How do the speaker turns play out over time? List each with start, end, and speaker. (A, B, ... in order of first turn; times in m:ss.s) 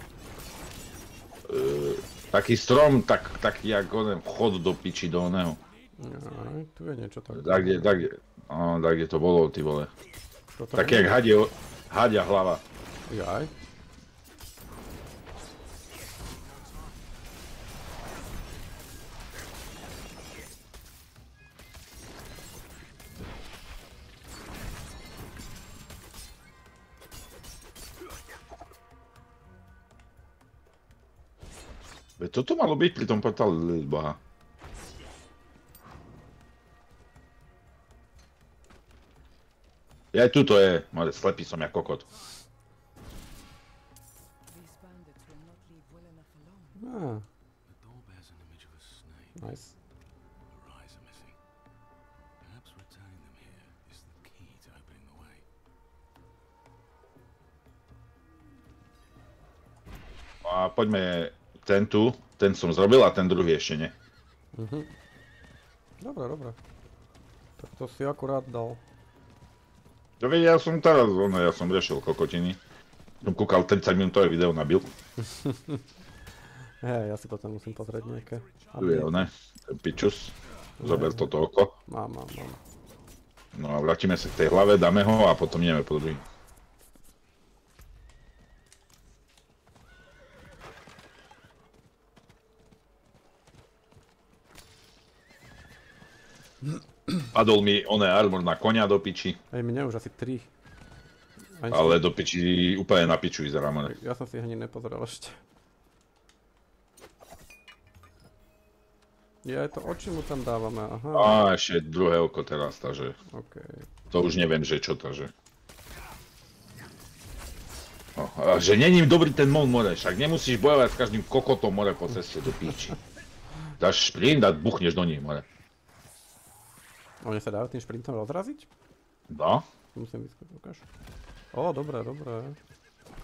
0:01.5-0:05.6 A
0:05.6-0:06.6 B
0:06.0-0:07.8 C
0:07.3-0:09.9 A
0:10.6-0:11.1 C
0:10.7-0:12.6 A
0:13.1-0:13.5 C
0:16.3-0:17.0 B
0:32.2-0:34.2 A
0:40.1-0:42.1 A
0:42.1-0:42.4 B
0:44.5-0:46.9 D
0:46.8-0:47.2 C
0:47.7-0:49.5 B
0:49.4-0:49.7 C
0:50.5-0:51.4 B
0:52.4-0:55.4 B
1:00.4-1:03.9 A
1:04.6-1:04.9 C
1:06.0-1:06.6 C
1:07.6-1:08.8 C
1:10.2-1:12.6 A
1:13.2-1:14.9 A
1:15.2-1:15.8 C
1:16.8-1:19.3 C
1:17.5-1:19.0 B
1:18.8-1:21.7 A
1:20.8-1:21.3 C
1:21.9-1:22.6 C
1:23.6-1:26.2 A
1:37.3-1:39.4 A
1:39.5-1:40.5 C
1:41.6-1:42.0 C
1:41.7-1:43.9 A
1:43.9-1:45.4 C
1:49.4-1:51.4 C
1:51.2-1:53.2 A
1:53.3-1:53.9 C
1:54.1-1:55.3 A
1:58.2-2:03.0 A
2:03.8-2:05.4 A
2:07.2-2:08.7 C
2:09.3-2:09.6 A
2:10.0-2:10.8 C
2:11.5-2:12.6 C